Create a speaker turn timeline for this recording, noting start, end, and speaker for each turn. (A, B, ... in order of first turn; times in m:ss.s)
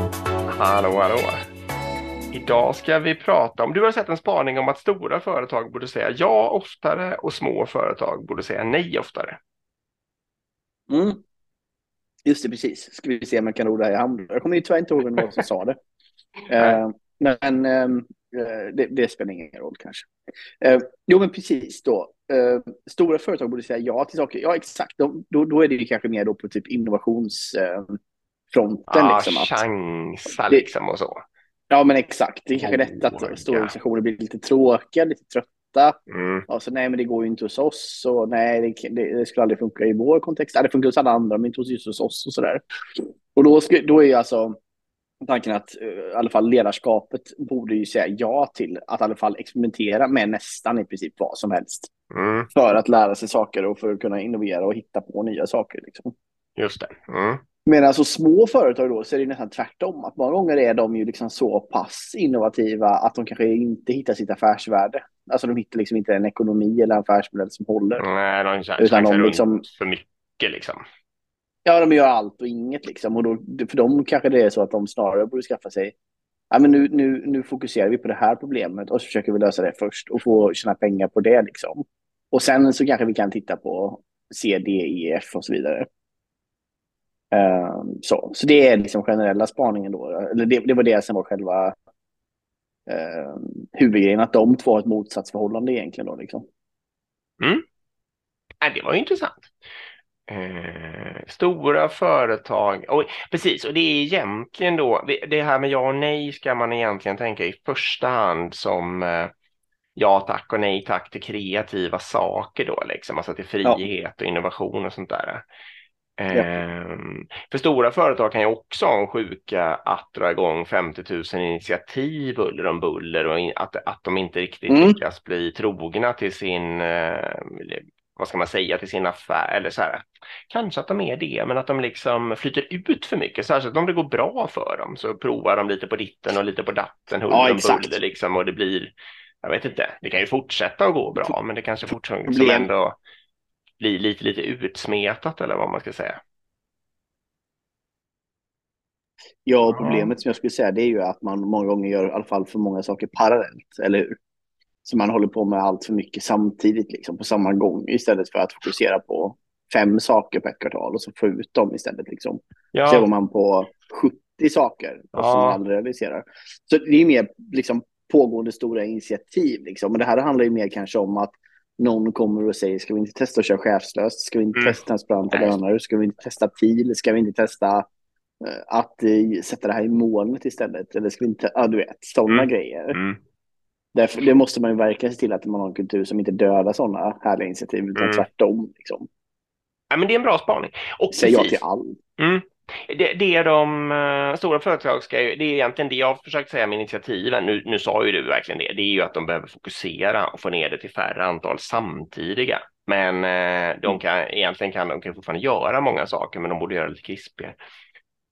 0:00.5-0:01.4 A
0:02.3-0:09.4 A
0:10.9-0:11.2 B
0:12.3-0:15.8 B
0:16.5-0:20.1 B
0:20.6-0:28.0 B
0:28.5-0:29.6 B
0:28.9-0:31.2 A
0:31.7-0:44.6 B
0:32.6-0:33.8 A
0:36.1-0:36.4 A
0:45.2-0:51.9 B
0:52.1-0:52.5 A
0:52.5-0:56.1 B
0:56.6-0:57.4 A
0:57.7-1:08.0 B
1:08.0-1:10.8 A
1:08.8-1:09.6 B
1:11.6-1:15.9 B
1:16.5-1:25.9 B
1:27.3-1:31.7 B
1:32.9-1:36.4 B
1:38.6-1:39.5 A
1:40.3-1:49.3 A
1:50.0-1:55.4 A
1:56.2-2:23.0 A
1:56.3-1:56.6 B
2:04.7-2:05.0 B
2:17.3-2:18.0 B
2:22.2-2:22.7 B
2:23.8-2:26.2 A
2:29.4-2:34.2 B
2:29.7-2:30.1 A
2:34.8-2:57.8 B
2:42.7-2:43.1 A
2:45.1-2:45.6 A
2:55.3-2:55.6 A
2:58.4-3:03.0 B
3:02.3-3:03.2 A
3:03.9-3:09.1 B
3:07.9-3:08.2 A
3:09.9-3:11.6 A
3:11.1-3:12.0 B
3:12.2-3:27.6 A